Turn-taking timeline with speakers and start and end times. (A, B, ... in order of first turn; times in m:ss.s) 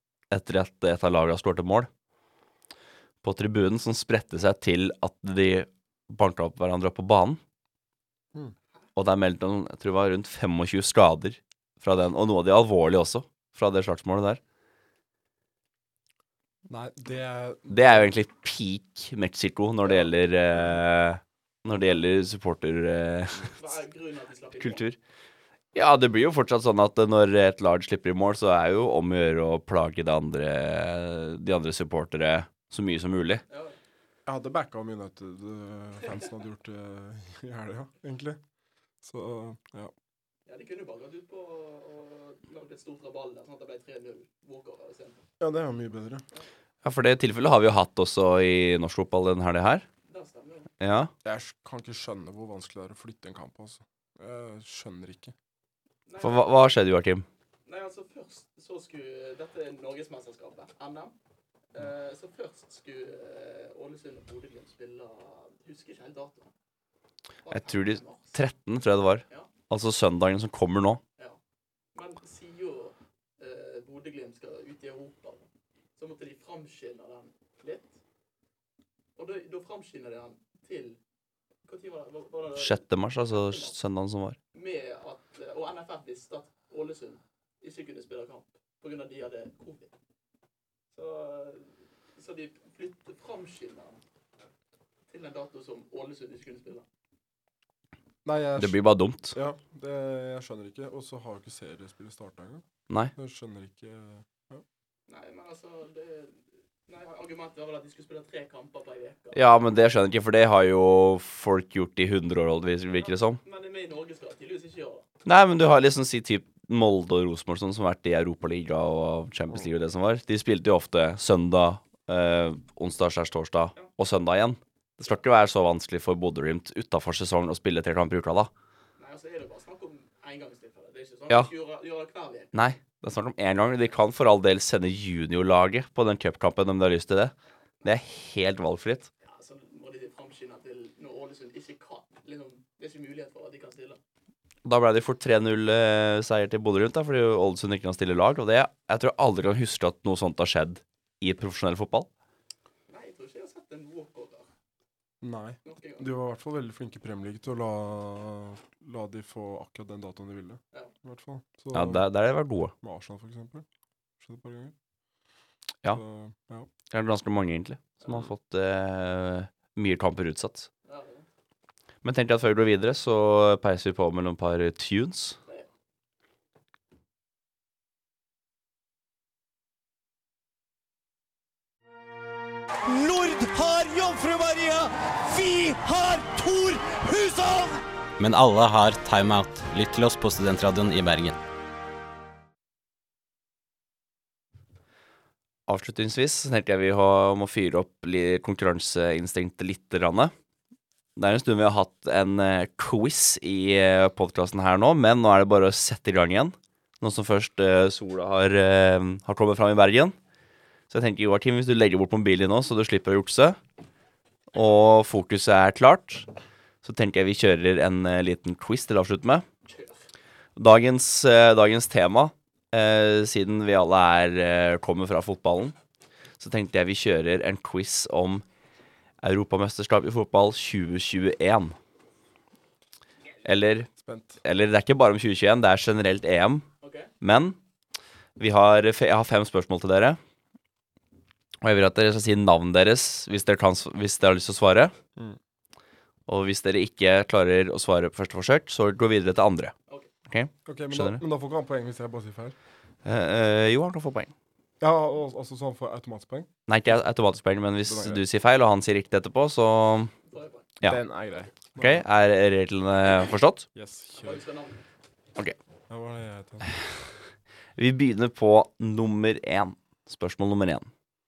0:00.3-0:01.9 A
0:03.2-0:07.4 A
0:09.0-0:14.4 A
0:16.7-0:18.1 B
0:17.7-0:23.7 A
0:23.6-0:24.8 C
0:24.6-0:25.0 A
0:25.7-0:33.4 A
0:33.5-0:33.8 C
0:34.2-0:38.4 B
0:39.0-0:39.9 B
0:40.4-0:45.2 C
0:45.4-0:46.2 B
0:46.8-0:49.8 A
0:50.0-0:50.7 C
0:50.8-0:51.1 A
0:51.2-0:55.3 B
0:56.0-0:56.6 C
0:56.2-0:57.2 A
0:57.6-1:01.1 C
1:01.7-1:06.5 C
1:07.4-1:08.4 C
1:07.5-1:11.0 A
1:11.9-1:18.0 C
1:19.2-1:21.0 C
1:21.6-1:23.8 C
1:22.6-1:24.4 A
1:24.5-1:29.9 C
1:30.9-1:34.0 C
1:35.1-1:36.8 C
1:38.2-1:38.8 B
1:38.6-1:39.4 A
1:39.3-1:44.6 B
1:45.1-1:49.6 C
1:49.3-1:53.4 A
1:52.9-1:55.0 C
1:55.2-2:08.5 A
2:09.0-2:12.5 C
2:12.5-2:17.3 A
2:17.8-2:19.1 A
2:19.2-2:24.0 C
2:24.6-2:32.1 A
2:32.9-2:34.5 C
2:35.2-2:42.1 B
2:35.6-2:36.1 C
2:41.7-2:42.7 A
2:42.8-2:43.6 B
2:44.2-2:44.7 B
2:45.8-2:46.7 B
2:46.9-2:50.7 A
2:50.8-2:51.3 C
2:52.0-2:55.4 A
3:02.9-3:07.8 D
3:08.2-3:11.4 E
3:15.7-3:20.3 A
3:21.2-3:30.1 A
3:30.9-3:33.6 A
3:34.5-3:36.3 A
3:36.8-3:39.4 A
3:39.7-3:40.0 C
3:40.6-3:45.7 A
3:46.4-3:48.4 A
3:49.2-3:51.7 A
3:53.4-3:53.9 A
3:53.9-3:54.4 B
3:54.4-3:56.6 A
3:56.8-3:57.1 C
3:57.2-3:57.6 A
3:58.4-4:00.2 A
4:01.6-4:04.9 A
4:06.3-4:09.7 A
4:10.3-4:11.2 A
4:10.6-4:12.6 B
4:13.0-4:14.3 A
4:14.8-4:16.5 B
4:16.7-4:20.1 A
4:17.8-4:18.2 B
4:20.3-4:21.5 C
4:20.8-4:22.0 B
4:21.8-4:23.6 A
4:23.7-4:24.4 B
4:24.2-4:24.9 C
4:25.9-4:26.7 B
4:27.8-4:30.9 A